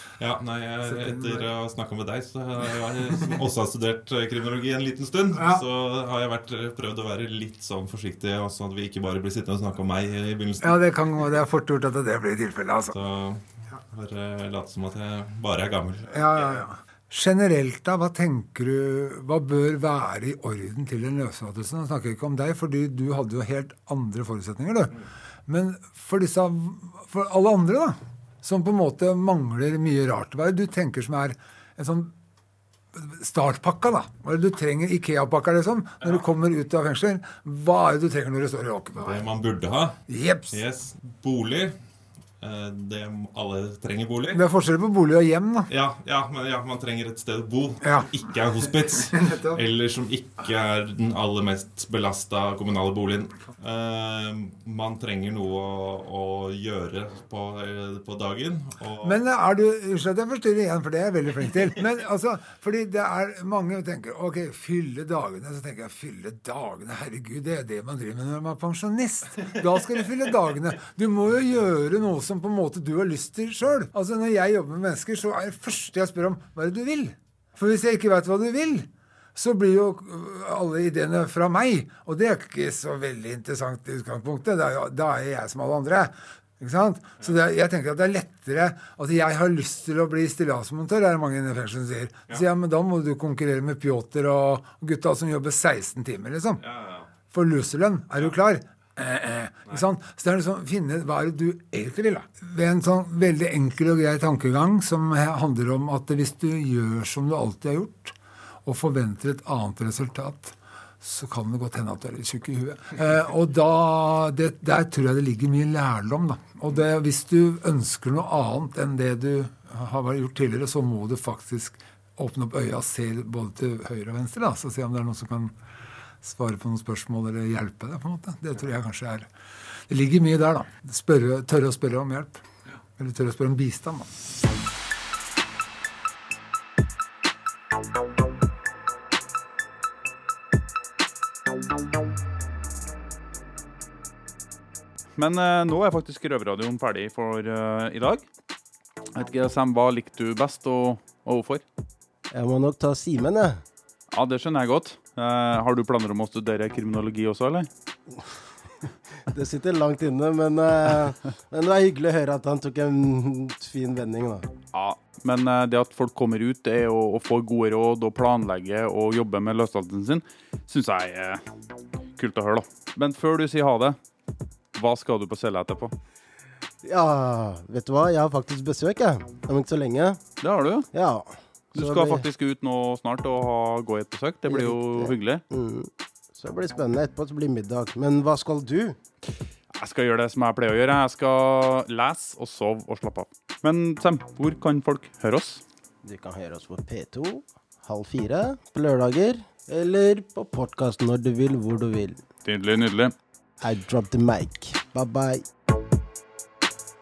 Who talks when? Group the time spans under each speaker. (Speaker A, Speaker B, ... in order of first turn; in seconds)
Speaker A: 0.2-10.8, 12.9-16.1, 39.0-40.0, 40.5-41.8, 42.4-44.4, 45.7-59.2, 96.6-97.1
Speaker B: 0.8-1.5, 5.3-5.6, 10.6-12.9, 16.1-25.0, 25.5-32.1, 32.9-39.2, 40.1-40.6, 44.3-45.7, 47.8-48.1, 49.2-49.6, 59.0-96.6, 97.3-125.5, 126.2-129.3, 129.9-132.4, 133.0-134.1
Speaker C: 145.2-148.2, 149.2-151.6, 154.1-157.7, 164.7-171.4, 172.2-174.0, 174.8-175.9, 180.4-180.9, 181.7-185.4, 189.8-195.6, 202.4-203.1
Speaker D: 152.3-153.6, 159.3-164.5, 176.8-180.2, 180.9-182.2, 184.5-189.0, 196.0-202.2, 203.6-205.4